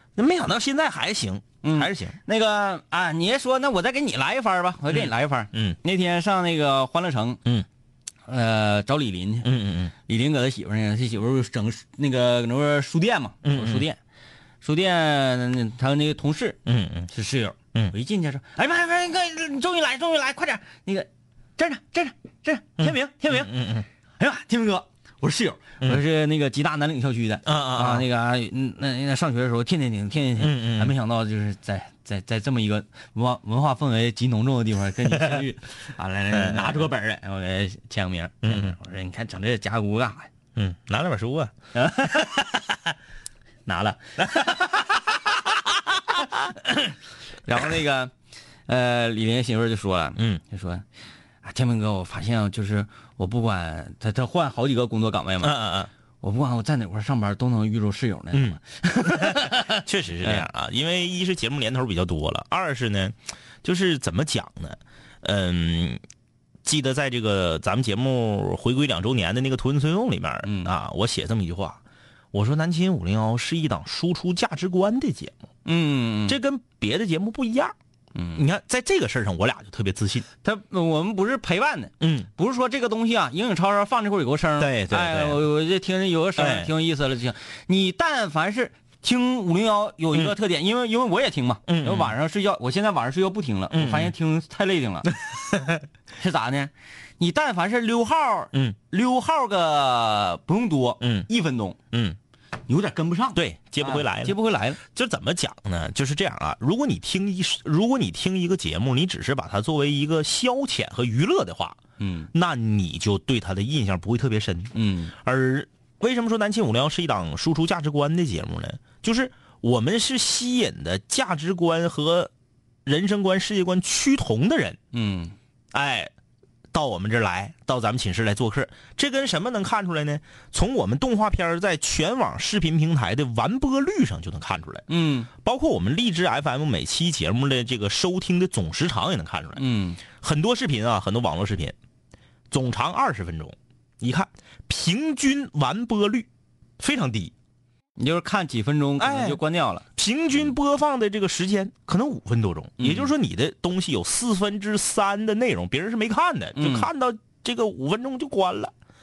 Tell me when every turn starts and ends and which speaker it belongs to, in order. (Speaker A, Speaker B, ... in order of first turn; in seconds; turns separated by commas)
Speaker A: 0.1-2.2, Speaker B: 1.6-7.4, Speaker A: 4.9-5.8, Speaker B: 8.3-9.5, Speaker A: 9.4-9.9, Speaker B: 10.1-14.0, Speaker A: 13.4-13.9, Speaker B: 14.6-16.6, Speaker A: 16.6-17.1, Speaker B: 17.1-23.5, Speaker A: 22.8-23.9, Speaker B: 24.2-40.3, Speaker A: 27.4-28.1, Speaker A: 30.4-30.9, Speaker A: 36.3-36.9, Speaker A: 38.4-38.8, Speaker A: 40.5-41.5, Speaker B: 41.7-42.6, Speaker B: 43.6-45.0, Speaker B: 47.5-48.1, Speaker B: 48.7-50.8, Speaker A: 50.2-50.4, Speaker B: 51.4-55.6, Speaker A: 55.4-55.9, Speaker B: 56.2-60.5, Speaker A: 58.3-66.0, Speaker A: 66.6-71.8, Speaker B: 70.4-70.7, Speaker A: 72.3-75.3, Speaker B: 75.6-76.4, Speaker A: 76.2-77.7, Speaker B: 78.1-78.4, Speaker A: 78.3-80.2, Speaker B: 80.4-95.1, Speaker A: 82.0-82.3, Speaker A: 84.6-85.4, Speaker A: 86.3-86.7, Speaker A: 91.7-92.1, Speaker A: 93.7-94.1, Speaker A: 95.3-95.8, Speaker B: 96.2-101.8, Speaker A: 101.0-101.3, Speaker A: 101.9-102.2, Speaker B: 102.7-104.8, Speaker A: 103.3-111.8, Speaker B: 112.0-112.3, Speaker A: 112.3-122.3, Speaker B: 114.7-115.1, Speaker A: 122.8-124.8, Speaker B: 124.9-125.3, Speaker A: 125.7-126.1, Speaker A: 126.7-141.8, Speaker B: 134.9-135.3, Speaker B: 139.6-140.0, Speaker A: 142.5-146.3, Speaker A: 146.8-147.3, Speaker B: 148.0-149.8, Speaker A: 149.0-149.4, Speaker A: 149.9-158.7, Speaker B: 152.8-153.1, Speaker B: 156.6-156.9